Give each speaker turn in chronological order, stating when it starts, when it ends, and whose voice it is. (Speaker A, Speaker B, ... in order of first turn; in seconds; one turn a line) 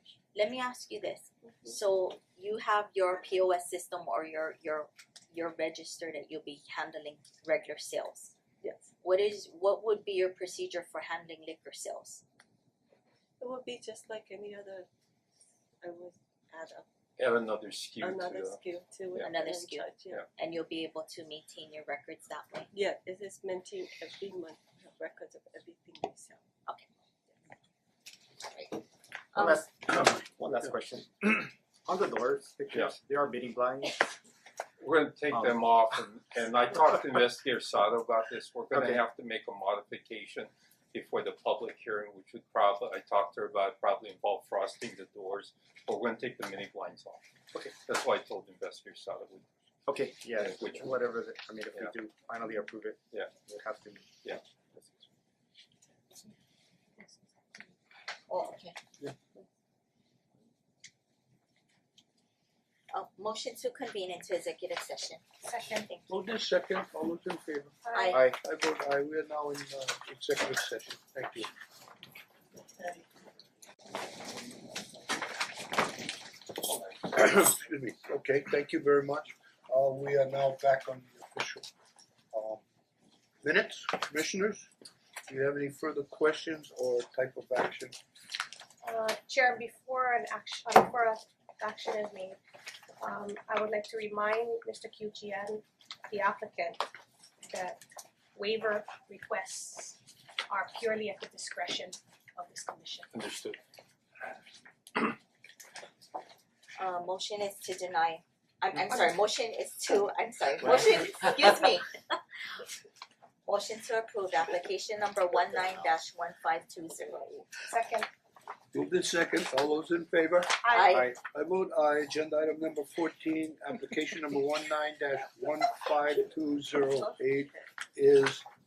Speaker A: 0.3-8.3
Speaker B: 8.6-8.9
Speaker A: 9.0-12.2
Speaker B: 13.4-14.9
Speaker B: 15.8-16.9
Speaker C: 17.2-18.6
Speaker B: 18.0-20.3
Speaker A: 19.2-22.7
Speaker B: 22.7-26.4
Speaker A: 28.4-28.8
Speaker A: 29.3-29.7
Speaker D: 29.3-34.1
Speaker C: 34.8-49.5
Speaker D: 35.3-35.6
Speaker D: 38.8-39.0
Speaker D: 49.9-55.1
Speaker C: 50.4-51.0
Speaker E: 57.0-57.7
Speaker A: 58.3-58.8
Speaker A: 62.9-65.3
Speaker E: 65.4-65.9
Speaker A: 65.8-66.2
Speaker F: 66.1-71.5
Speaker E: 67.8-68.2
Speaker A: 68.0-68.3
Speaker D: 68.1-68.4
Speaker F: 77.0-81.7
Speaker F: 82.3-82.6
Speaker F: 83.4-84.7
Speaker F: 85.3-88.0
Speaker E: 88.8-92.4
Speaker E: 93.0-96.8
Speaker E: 97.4-97.8
Speaker E: 98.3-103.1
Speaker C: 103.1-103.6
Speaker A: 106.8-112.1
Speaker A: 113.5-117.6
Speaker E: 117.7-118.1
Speaker F: 118.7-120.6
Speaker E: 120.6-121.0
Speaker A: 120.7-121.1
Speaker F: 121.2-128.5
Speaker B: 127.0-127.7